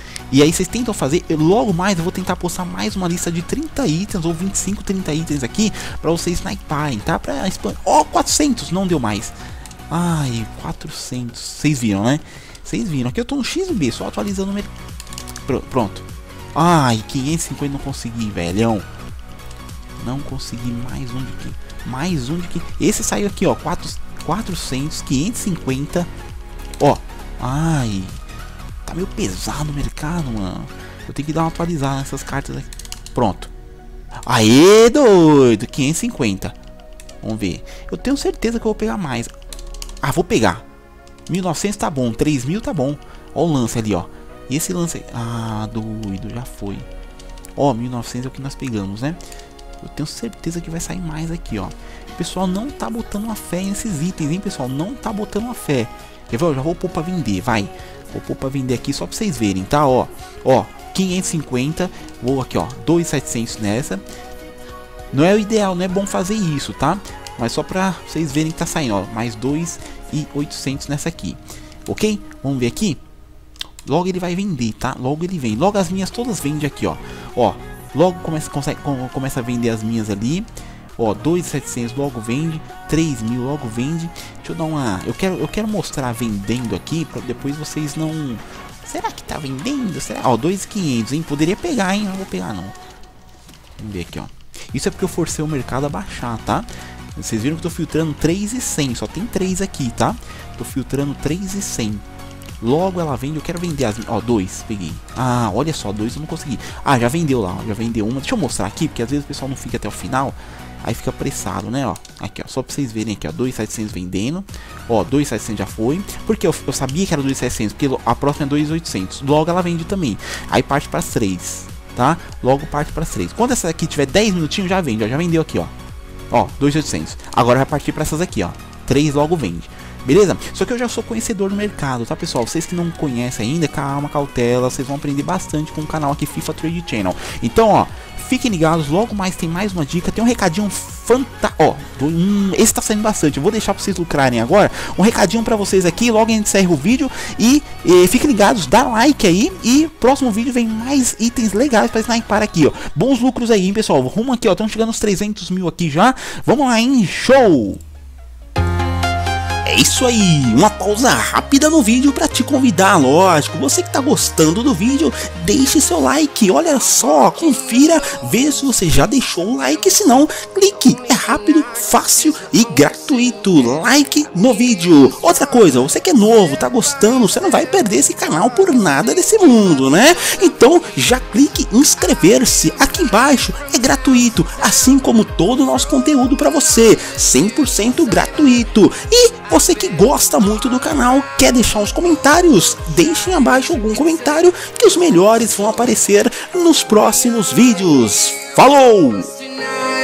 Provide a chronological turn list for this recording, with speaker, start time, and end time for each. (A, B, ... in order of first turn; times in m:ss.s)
0:00.3-0:09.4 A
0:09.9-0:14.7 A
0:15.4-0:18.8 A
0:20.0-0:26.1 A
0:26.8-0:28.2 A
0:28.8-0:33.5 A
0:34.2-0:36.6 A
0:37.2-0:39.3 A
0:40.0-0:40.6 A
0:41.3-0:46.9 A
0:47.6-0:49.2 A
0:49.8-1:04.0 A
1:05.1-1:13.0 A
1:13.8-1:32.8 A
1:33.8-1:42.0 A
1:42.6-2:05.7 A
2:06.3-2:37.8 A
2:39.6-3:19.3 A